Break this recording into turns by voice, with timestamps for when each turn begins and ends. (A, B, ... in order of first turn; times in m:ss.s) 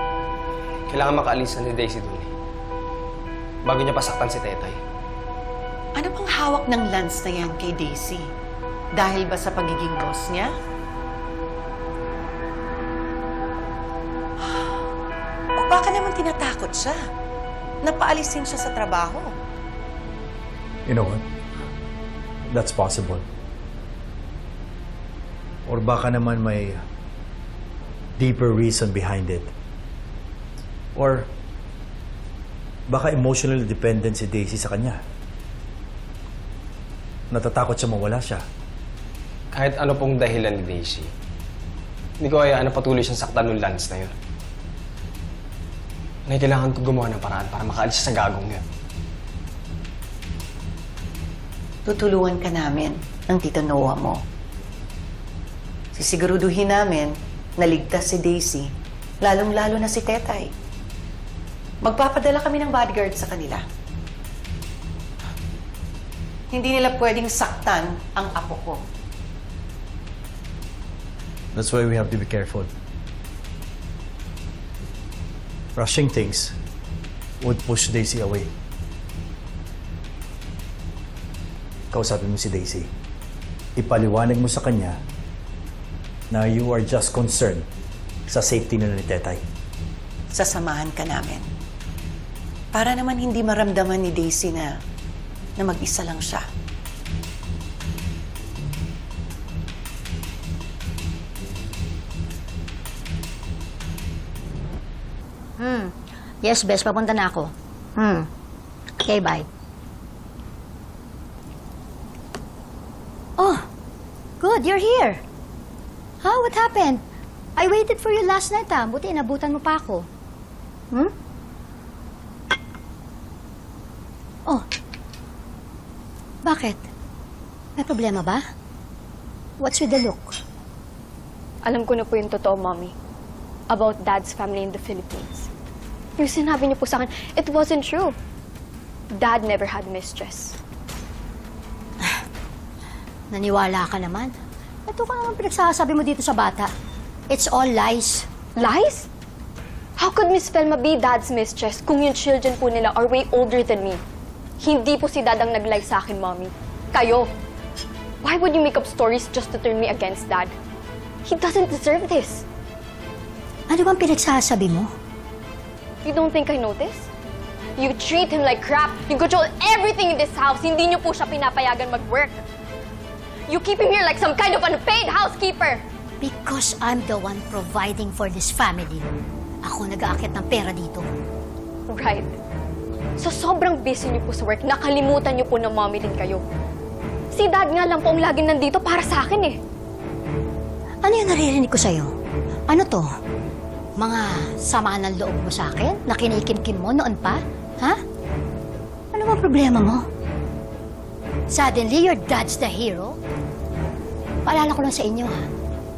0:00.9-0:02.3 A
0:03.7-0:04.8 A
0:06.0-0:08.3 B
0:09.0-0:10.5 B
0:15.6-0:17.0 B
0:17.8-0:19.3 B
0:20.9-0:21.2 C
0:22.5-0:23.2 C
0:25.7-0:26.8 C
0:28.2-0:29.5 C
0:31.0-0:31.3 C
0:32.9-0:35.0 C
0:37.3-0:38.4 C
0:39.5-0:41.1 A
0:42.2-0:44.2 A
0:46.3-0:48.6 A
0:51.9-0:54.2 B
0:56.0-0:58.7 B
0:59.2-1:00.5 B
1:01.8-1:03.6 B
1:06.5-1:08.8 B
1:11.5-1:12.7 C
1:15.8-1:16.6 C
1:17.4-1:18.5 C
1:21.9-1:22.9 C
1:23.8-1:25.0 C
1:26.3-1:27.7 C
1:28.3-1:29.4 C
1:30.3-1:31.5 B
1:32.7-1:34.7 B
1:35.6-1:36.4 B
1:45.6-1:48.3 D
1:49.0-1:49.5 D
1:53.4-1:53.7 D
1:54.4-1:55.2 D
1:56.2-1:57.0 D
1:57.6-2:00.1 D
2:06.5-2:06.9 D
2:07.8-2:08.4 D
2:09.6-2:10.4 D
2:11.7-2:12.9 E
2:13.7-2:15.5 E
2:16.2-2:18.2 E
2:19.1-2:20.6 E
2:23.3-2:24.3 D
2:24.9-2:26.7 D
2:27.3-2:28.3 D
2:28.6-2:29.1 E
2:30.0-2:34.0 E
2:34.6-2:37.3 E
2:38.2-2:40.5 E
2:41.2-2:42.4 E
2:43.7-2:44.9 D
2:46.0-2:47.1 E
2:47.8-2:52.4 E
2:53.5-2:55.8 E
2:56.2-2:59.1 D
2:59.7-3:01.1 D
3:01.9-3:02.3 E
3:03.2-3:06.4 E
3:07.3-3:09.6 E
3:11.0-3:12.2 D
3:12.7-3:13.1 D
3:14.0-3:18.0 D
3:19.1-3:20.1 D
3:21.5-3:23.2 D
3:24.4-3:25.5 D